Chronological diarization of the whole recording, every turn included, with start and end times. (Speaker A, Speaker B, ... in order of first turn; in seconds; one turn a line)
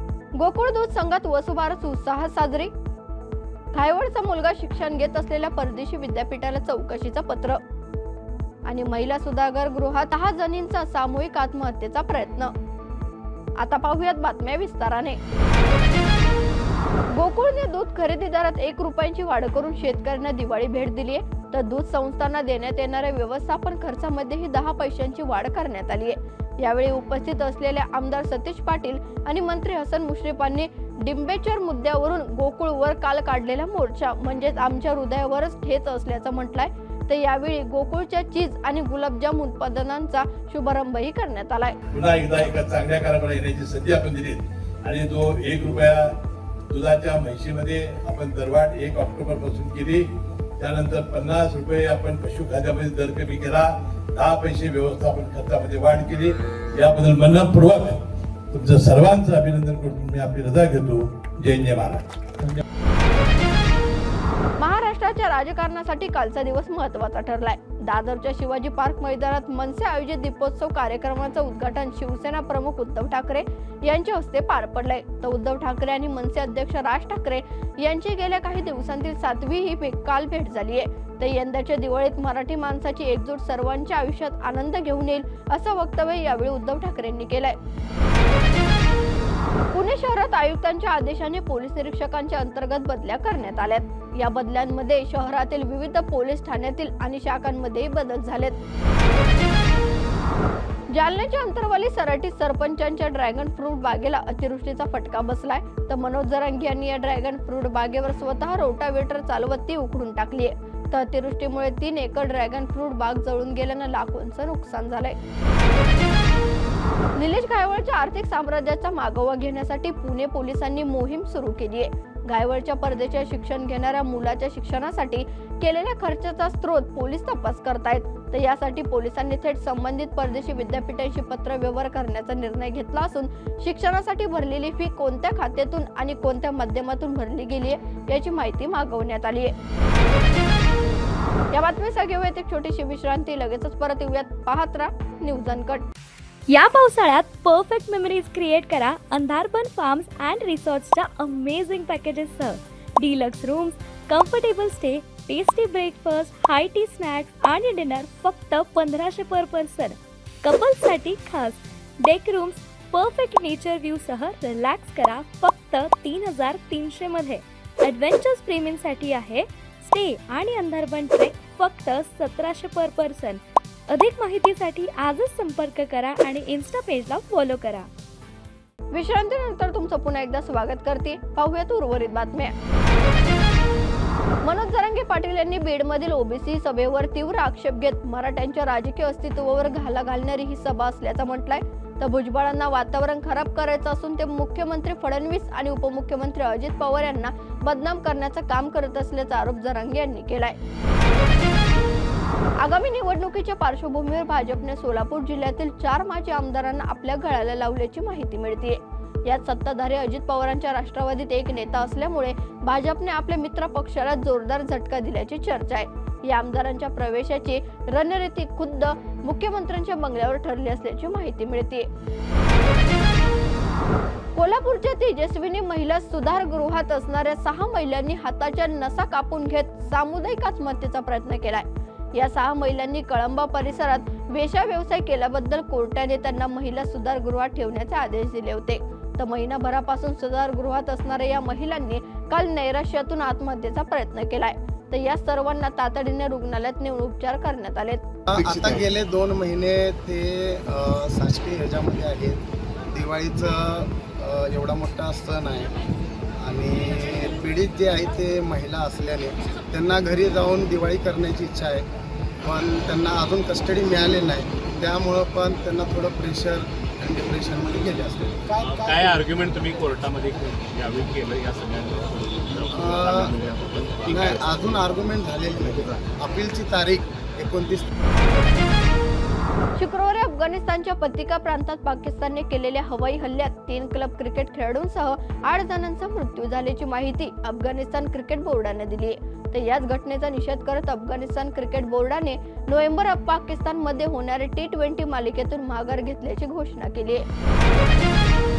Speaker A: 0.4-2.7
Speaker A: 3.7-7.6
Speaker A: 8.7-12.5
Speaker A: 13.6-15.2
Speaker A: 17.1-41.8
Speaker B: 41.9-46.1
Speaker B: 46.7-50.0
Speaker B: 50.6-58.0
Speaker B: 58.5-62.6
Speaker A: 64.6-87.6
Speaker A: 89.7-98.6
Speaker A: 100.9-115.2
Speaker A: 117.2-139.5
Speaker A: 141.5-145.9
Speaker C: 146.5-177.9
Speaker A: 178.9-182.5
Speaker A: 184.4-200.6
Speaker A: 202.6-221.9
Speaker A: 224.3-248.0
Speaker D: 248.3-252.4
Speaker E: 248.4-248.7
Speaker D: 252.9-255.8
Speaker D: 256.4-261.9
Speaker D: 262.4-268.9
Speaker E: 268.5-274.9
Speaker D: 272.7-273.4
Speaker D: 274.1-277.9
Speaker A: 279.8-297.2